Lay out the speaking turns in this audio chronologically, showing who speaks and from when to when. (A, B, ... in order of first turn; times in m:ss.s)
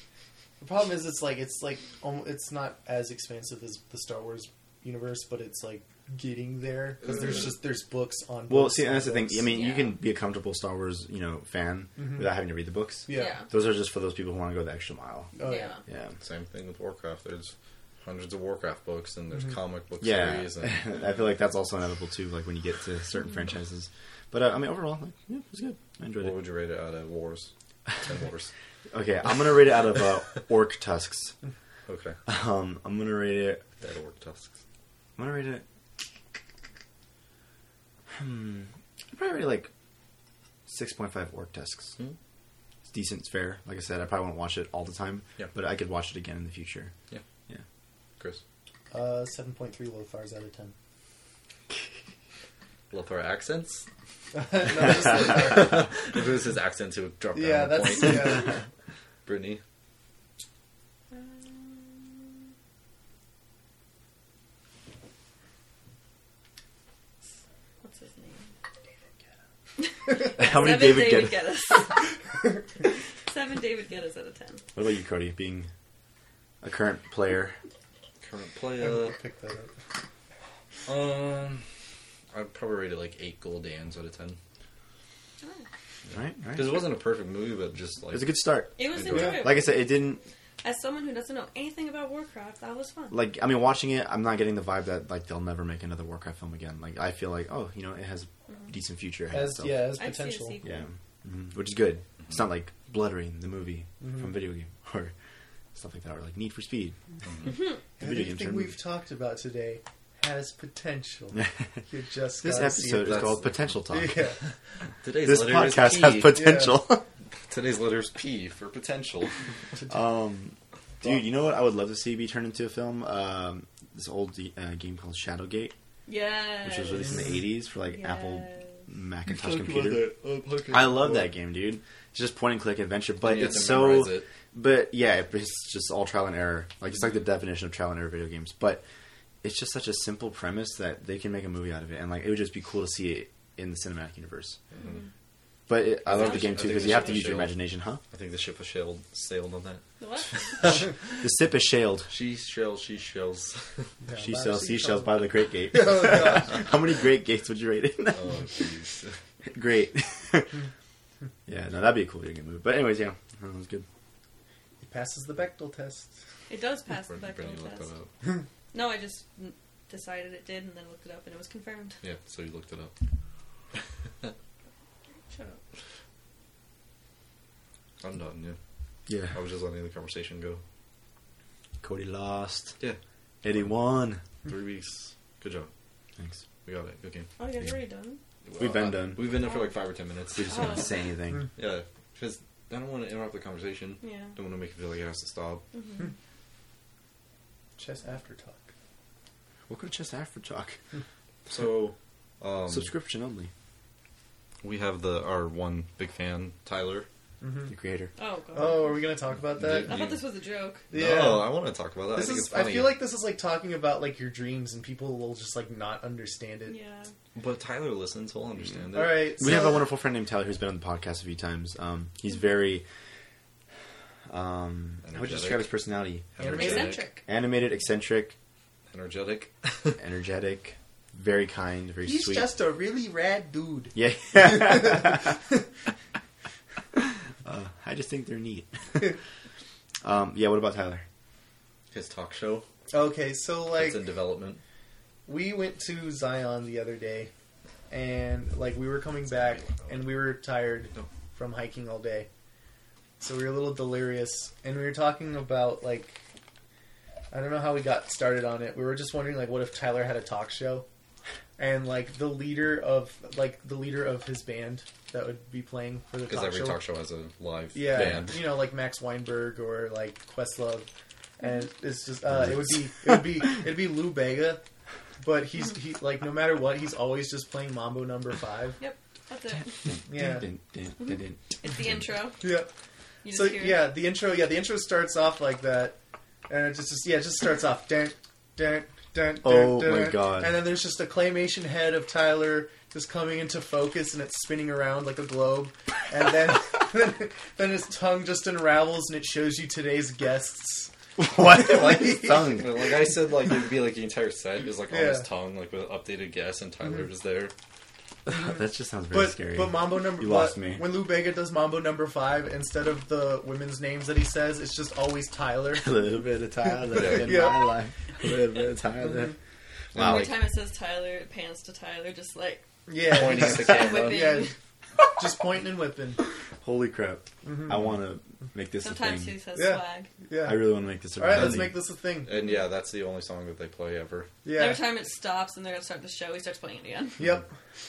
0:00.6-0:09.5 A
0:07.0-0:07.6 B
0:08.5-0:15.3 C
0:09.4-0:10.0 D
0:12.0-0:12.3 A
0:13.1-0:13.4 A
0:13.1-0:13.5 D
0:15.4-0:15.7 A
0:15.4-0:15.8 D
0:15.8-0:16.2 C
0:16.2-0:20.8 B
0:20.0-0:26.4 C
0:26.2-0:28.5 B
0:28.9-0:31.3 C
0:31.9-0:32.2 B
0:32.2-0:33.6 C
0:33.8-0:34.5 B
0:35.2-0:35.6 C
0:38.1-0:39.7 C
0:40.7-0:42.0 C
0:42.9-0:46.9 C
0:48.9-0:50.7 A
0:52.9-0:53.8 B
0:54.3-0:55.9 A
0:54.7-0:58.6 B
0:57.3-0:58.5 A
0:59.2-0:59.6 B
1:01.1-1:02.4 D
1:07.8-1:08.5 D
1:09.8-1:12.2 D
1:10.2-1:11.5 C
1:12.8-1:14.6 D
1:14.7-1:15.7 C
1:16.6-1:17.6 C
1:18.2-1:19.2 B
1:18.8-1:19.7 A
1:20.8-1:21.6 B
1:22.3-1:24.4 B
1:25.4-1:25.6 D
1:26.1-1:29.4 B
1:26.1-1:26.8 C
1:28.1-1:30.2 C
1:28.8-1:30.0 D
1:30.6-1:33.2 D
1:33.1-1:40.0 C
1:39.3-1:40.6 A
1:40.0-1:40.9 D
1:40.6-1:45.1 C
1:44.0-1:44.3 A
1:45.7-1:47.0 C
1:47.2-1:47.6 B
1:47.4-1:47.8 D
1:48.0-1:53.3 A
1:48.0-1:48.8 C
1:51.3-1:51.6 C
1:52.4-1:54.3 C
1:53.0-1:53.6 B
1:53.9-1:54.4 A
1:55.0-1:56.5 B
1:55.2-1:57.0 C
1:56.3-1:56.8 A
1:57.4-1:59.3 B
1:59.8-2:00.0 A
1:59.9-2:05.7 C
2:06.0-2:08.8 D
2:06.6-2:10.1 C
2:09.2-2:11.3 B
2:10.7-2:18.8 C
2:13.2-2:14.3 B
2:19.4-2:24.6 C
2:24.7-2:25.0 B
2:24.7-2:25.1 D
2:25.7-2:28.0 C
2:26.0-2:27.6 B
2:26.2-2:27.0 D
2:28.1-2:31.2 B
2:30.0-2:30.6 D
2:31.2-2:32.1 C
2:32.1-2:33.9 B
2:34.0-2:36.7 A
2:34.2-2:38.6 C
2:38.1-2:39.2 B
2:39.4-2:40.6 C
2:41.5-2:43.8 C
2:44.8-2:46.1 A
2:46.5-2:47.9 D
2:47.1-2:48.1 B
2:48.7-2:52.0 D
2:52.0-2:52.9 B
2:55.2-2:55.6 D
2:58.0-2:58.6 B
2:59.1-2:59.4 C
2:59.3-3:00.6 B
3:01.8-3:02.8 C
3:03.4-3:04.2 C
3:04.4-3:05.7 B
3:06.6-3:07.3 B
3:07.4-3:08.2 D
3:08.4-3:10.9 B
3:08.6-3:09.4 C
3:09.4-3:09.7 D
3:10.3-3:11.5 C
3:10.4-3:11.1 D
3:11.6-3:15.6 B
3:14.0-3:14.4 D
3:15.7-3:16.1 D
3:17.8-3:18.7 A
3:19.7-3:20.8 C
3:21.5-3:22.9 B
3:22.7-3:23.5 C
3:24.6-3:27.1 B
3:27.4-3:27.7 A
3:27.7-3:28.1 C
3:28.2-3:29.2 D
3:28.5-3:30.0 A
3:29.5-3:30.2 B
3:29.7-3:30.8 D
3:30.9-3:31.6 A
3:30.9-3:33.0 B
3:32.1-3:36.8 A
3:36.7-3:37.1 D
3:37.3-3:39.4 B
3:38.9-3:39.8 A
3:39.4-3:42.8 C
3:44.3-3:48.3 C
3:45.0-3:45.7 B
3:46.4-3:47.0 B
3:46.4-3:47.0 A
3:46.5-3:47.2 D
3:48.9-3:50.0 B
3:50.0-3:52.5 C
3:52.0-3:55.4 A
3:53.9-3:55.4 C
3:57.0-3:59.2 C
4:00.0-4:01.0 C
4:01.9-4:02.6 B
4:02.9-4:04.1 A
4:03.7-4:04.6 B
4:05.2-4:07.3 A
4:07.9-4:12.3 A
4:09.3-4:10.1 B
4:13.2-4:16.2 A
4:17.3-4:20.8 A
4:21.6-4:26.8 A
4:26.2-4:28.5 B
4:27.7-4:34.6 A
4:31.4-4:31.6 D
4:32.3-4:33.2 C
4:35.2-4:38.8 A
4:38.8-4:39.9 D
4:39.8-4:42.1 C
4:40.1-4:40.5 A
4:41.0-4:42.4 D
4:42.4-4:42.7 A
4:43.2-4:43.9 D
4:43.3-4:46.0 A
4:46.5-5:02.6 A
4:49.4-4:50.6 C
5:01.2-5:02.9 C
5:02.3-5:07.5 B
5:04.9-5:05.3 A
5:08.2-5:10.9 C
5:09.1-5:16.1 A
5:15.7-5:19.4 C
5:16.6-5:17.8 A
5:16.9-5:17.4 B
5:19.0-5:19.3 A
5:19.9-5:20.3 C
5:19.9-5:20.4 B
5:19.9-5:24.5 D
5:22.9-5:24.5 A
5:23.1-5:24.4 B
5:25.2-5:26.2 A
5:26.6-5:29.4 C
5:27.4-5:27.8 A
5:28.8-5:30.1 D
5:29.5-5:32.3 A
5:30.4-5:31.8 C
5:31.3-5:31.7 B
5:32.2-5:34.3 B
5:34.4-5:34.9 A
5:34.5-5:37.2 D
5:37.2-5:37.5 A